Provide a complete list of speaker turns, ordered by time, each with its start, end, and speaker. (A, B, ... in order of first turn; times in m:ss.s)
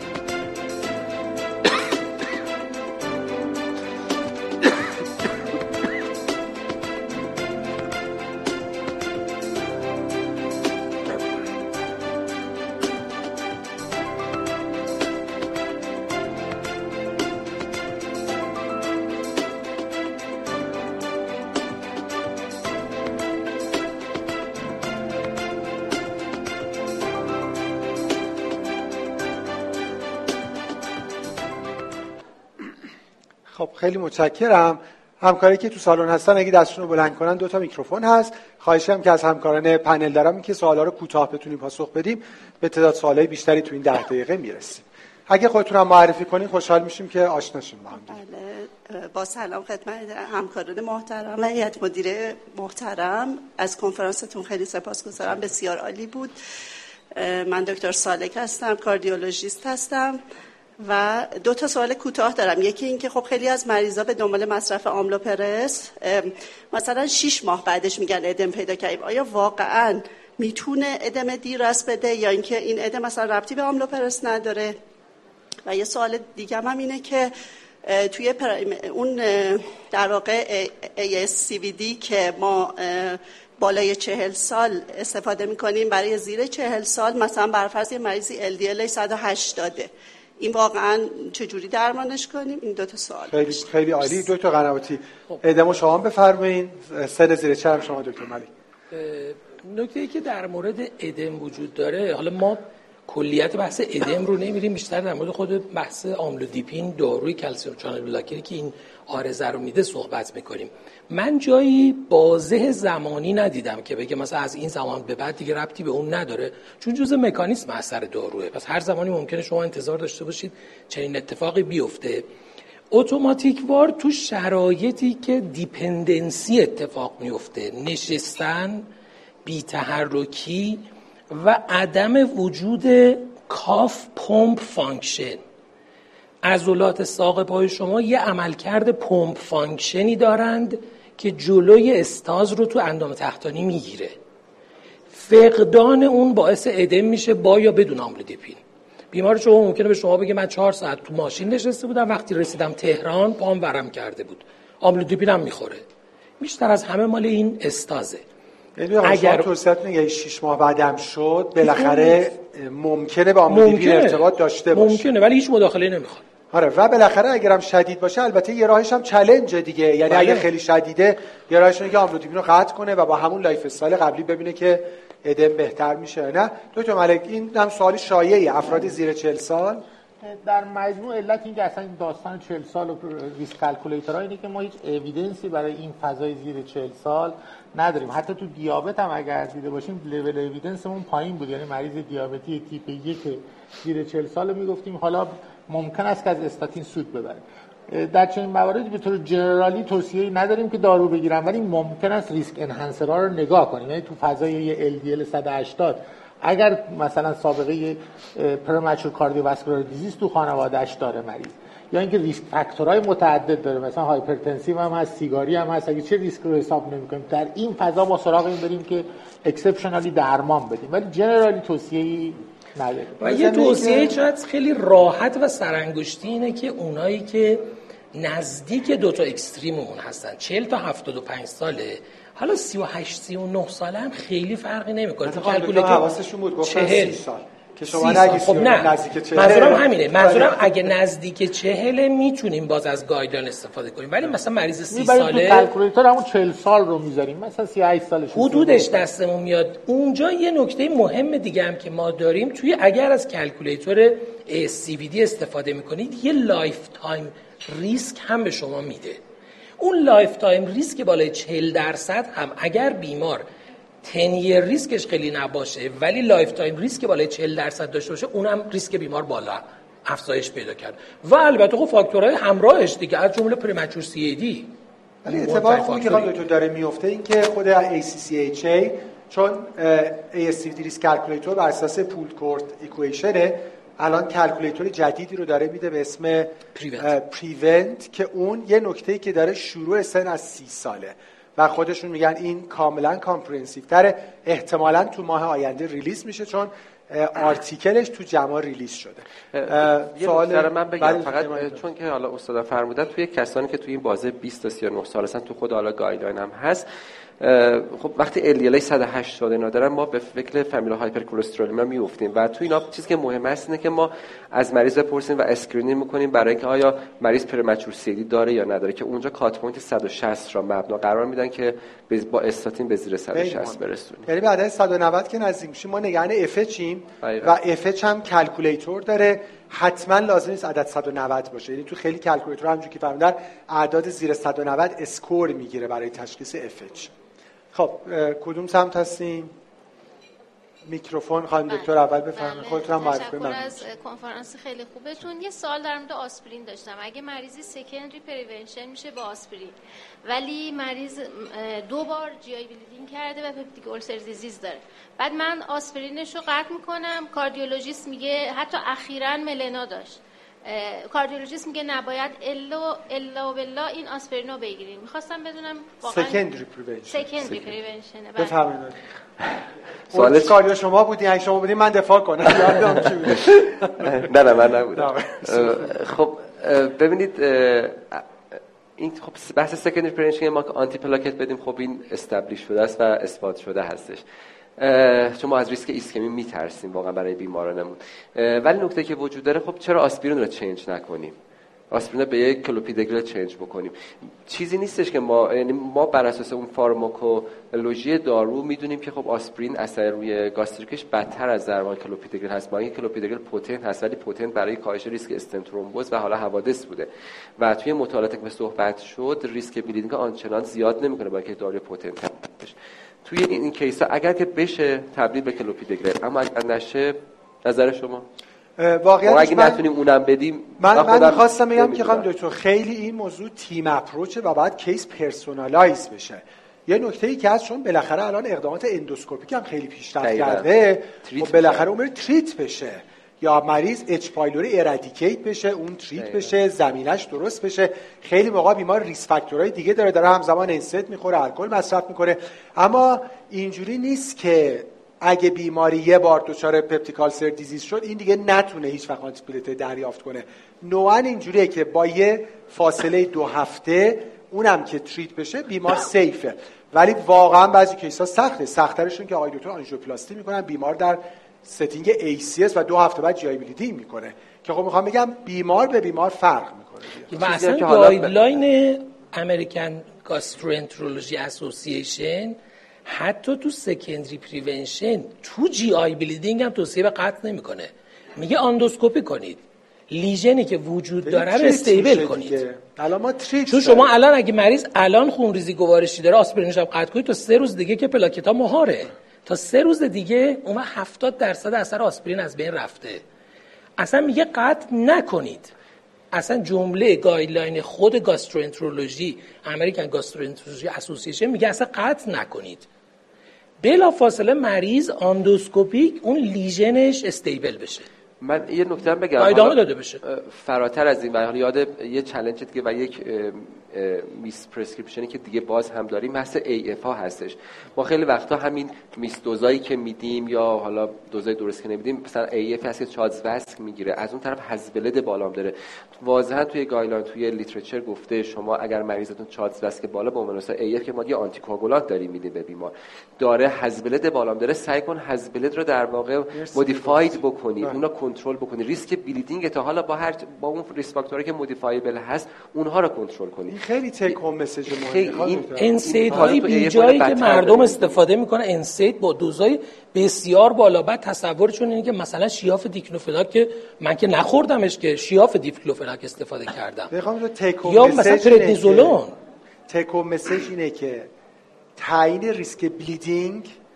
0:33.5-0:48.2 A
0:48.0-0:56.3 B
0:57.1-1:00.2 B
1:00.8-1:14.8 B
1:15.6-1:17.3 B
1:17.8-1:33.6 B
1:33.3-1:38.5 A
1:38.9-2:02.3 C
2:02.9-2:08.9 C
2:09.4-2:15.4 C
2:16.4-2:24.2 C
2:25.1-2:28.6 C
2:29.1-2:35.8 C
2:36.4-2:38.2 C
2:38.8-2:45.1 A
2:39.0-2:39.5 C
2:41.6-2:42.3 C
2:43.5-2:46.2 C
2:46.5-2:59.8 A
2:50.1-2:50.5 C
3:00.2-3:43.2 D
3:43.2-3:44.1 A
3:43.2-3:56.0 C
3:55.2-4:00.9 A
3:56.6-3:57.2 C
3:57.9-4:05.7 C
4:04.9-4:09.0 D
4:08.3-4:19.2 C
4:19.8-4:23.4 C
4:24.0-4:34.7 C
4:35.2-5:01.8 A
4:35.2-4:36.3 C
4:46.7-4:47.1 C
4:59.5-5:06.8 E
5:07.4-5:24.3 E
5:23.3-5:37.1 A
5:27.2-5:27.5 E
5:37.7-5:39.5 A
5:40.8-5:43.8 A
5:41.7-6:06.4 F
6:06.0-6:07.6 A
6:07.1-6:08.6 F
6:07.4-6:07.7 E
6:08.4-6:09.0 A
6:10.1-6:14.3 A
6:10.1-6:10.6 E
6:13.3-6:18.3 E
6:14.9-6:15.9 A
6:19.0-6:24.2 E
6:24.8-6:31.4 E
6:31.9-6:58.3 E
6:58.8-6:59.8 A
6:59.2-7:02.2 E
7:00.8-7:47.3 A
7:10.2-7:10.7 E
7:11.2-7:11.9 E
7:16.2-7:16.5 E
7:47.3-7:48.4 E
7:47.3-8:02.6 C
8:01.2-8:04.1 A
8:03.7-8:13.2 C
8:14.0-8:15.7 C
8:16.3-8:22.8 C
8:23.8-8:28.1 C
8:28.4-9:03.8 E
8:29.4-8:30.2 C
8:56.5-8:58.0 A
9:03.7-9:06.6 A
9:04.9-9:08.2 E
9:05.8-9:17.1 C
9:17.1-9:19.2 A
9:17.8-9:19.4 C
9:19.9-9:21.3 A
9:22.0-9:23.8 A